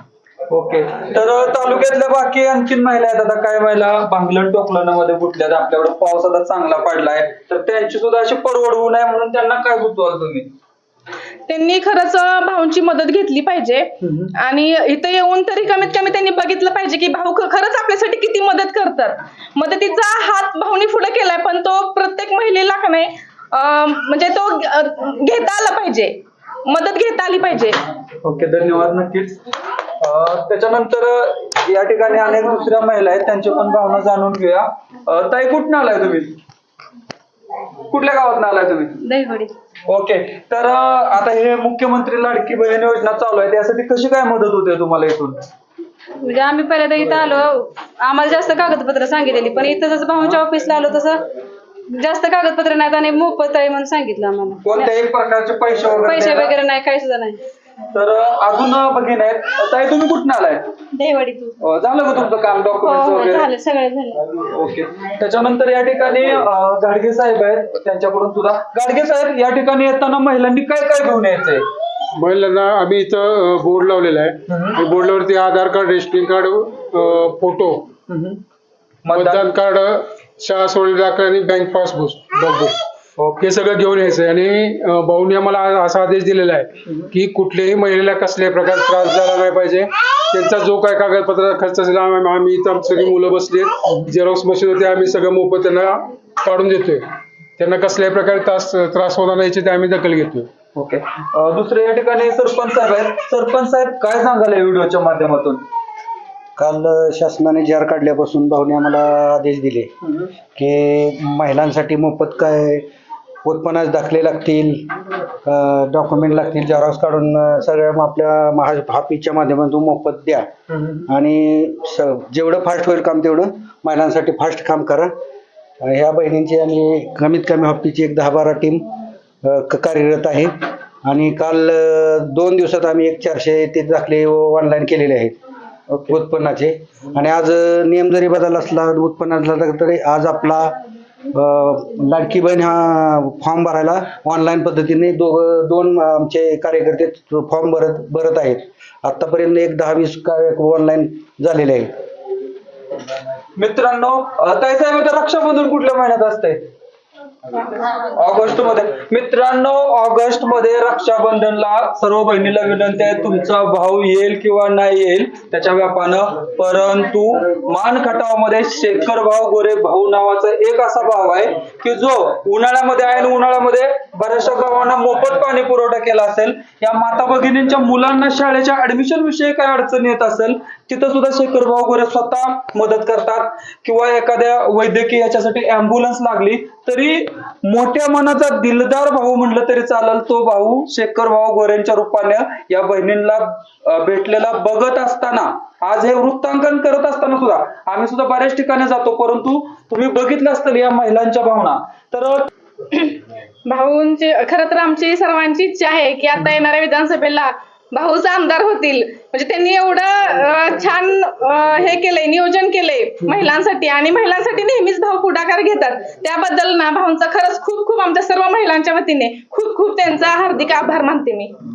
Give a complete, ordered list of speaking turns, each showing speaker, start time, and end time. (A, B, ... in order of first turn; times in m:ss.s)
0:00.5-0:10.5 A
0:11.5-0:27.8 B
0:14.0-0:14.3 A
0:28.2-0:29.4 A
0:30.0-0:36.4 A
0:37.9-0:39.0 A
0:39.0-0:39.5 C
0:39.9-0:45.4 A
0:46.2-0:51.2 C
0:51.9-0:54.8 C
0:54.6-0:56.5 A
0:56.1-0:57.4 C
0:57.9-1:00.7 A
1:01.0-1:01.5 C
1:01.6-1:03.5 A
1:02.9-1:04.2 C
1:04.4-1:11.6 A
1:12.1-1:17.9 D
1:14.5-1:14.8 A
1:18.1-1:18.4 A
1:19.0-1:19.4 A
1:19.1-1:22.8 D
1:23.2-1:23.5 A
1:23.4-1:37.0 D
1:26.9-1:27.1 A
1:37.6-1:40.5 D
1:40.8-1:45.6 A
1:46.6-1:49.9 E
1:50.0-1:50.3 A
1:50.6-1:52.8 E
1:53.4-2:00.5 E
2:00.7-2:01.1 A
2:01.1-2:05.1 E
2:05.8-2:08.9 E
2:09.4-2:10.5 E
2:11.0-2:15.4 E
2:15.9-2:16.2 A
2:16.1-2:20.8 E
2:21.3-2:31.9 E
2:33.6-2:36.6 A
2:38.0-3:22.5 A
3:22.9-3:41.6 B